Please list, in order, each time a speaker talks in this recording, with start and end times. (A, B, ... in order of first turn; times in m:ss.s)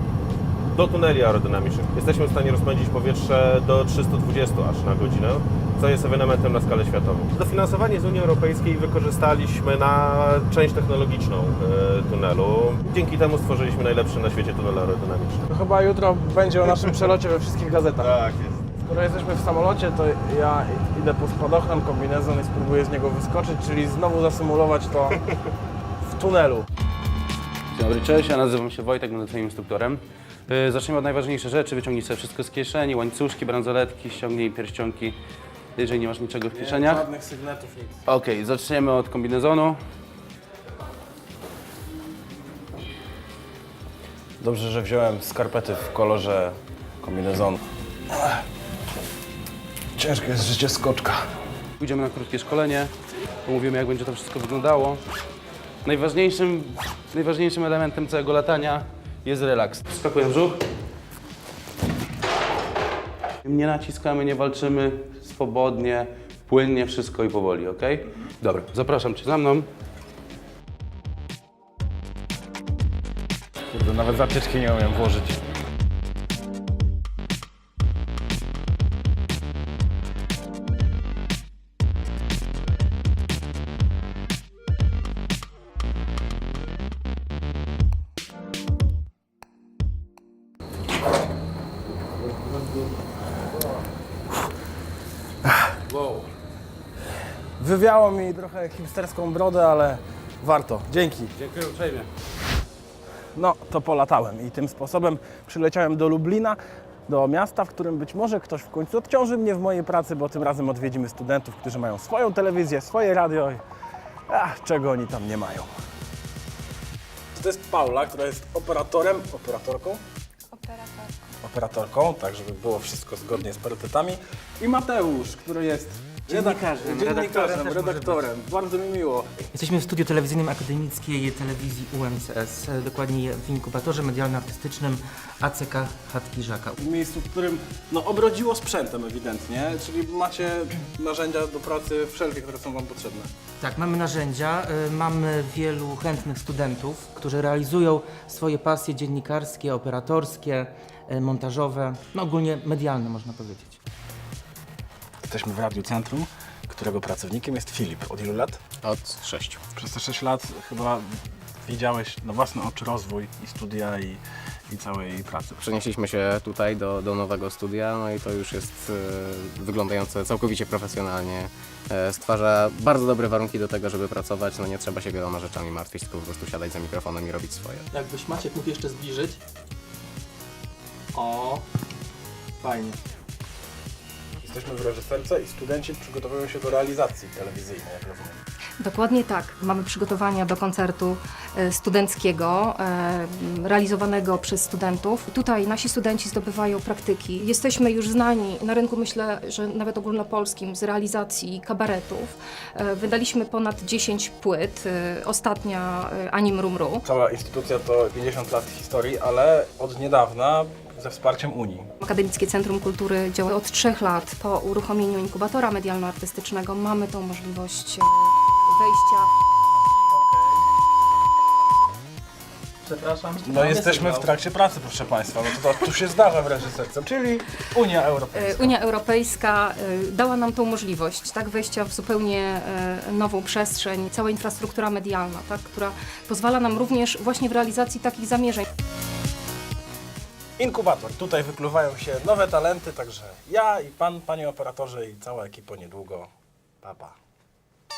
0:00.7-0:15.4 A
0:15.5-0:18.2 B
0:18.0-0:18.6 A
0:18.8-0:25.2 B
0:26.0-0:26.7 B
0:27.8-0:35.2 C
0:35.8-0:37.0 C
0:36.5-0:38.0 B
0:38.1-0:39.8 C
0:44.4-0:47.6 B
0:48.1-0:48.4 B
0:50.0-0:51.2 B
0:51.8-0:52.9 C
0:53.5-0:55.0 C
0:55.8-1:00.6 C
1:03.4-1:09.7 C
1:13.7-1:15.4 B
1:32.3-1:32.8 C
1:35.9-1:36.3 C
1:37.6-1:41.3 B
1:41.4-1:42.1 C
1:43.4-1:53.6 B
1:54.3-1:55.7 B
1:57.4-2:00.0 B
2:00.5-2:01.1 D
2:01.4-2:09.5 B
2:06.3-2:08.2 E
2:09.6-2:16.8 E
2:16.8-2:23.3 B
2:23.6-2:33.8 E
2:35.2-2:38.6 B
2:38.8-2:39.6 F
2:39.8-2:45.7 B
2:45.6-2:57.8 F
2:57.9-2:59.4 G
3:01.1-3:01.6 G
3:02.6-3:03.0 G
3:04.4-3:08.4 B
3:08.8-3:27.0 D
3:27.0-3:31.9 B
3:32.0-3:39.3 D
3:42.8-3:44.3 G
3:43.4-3:48.7 B
3:48.3-3:58.7 D
4:00.6-4:06.3 B
4:06.8-4:07.2 B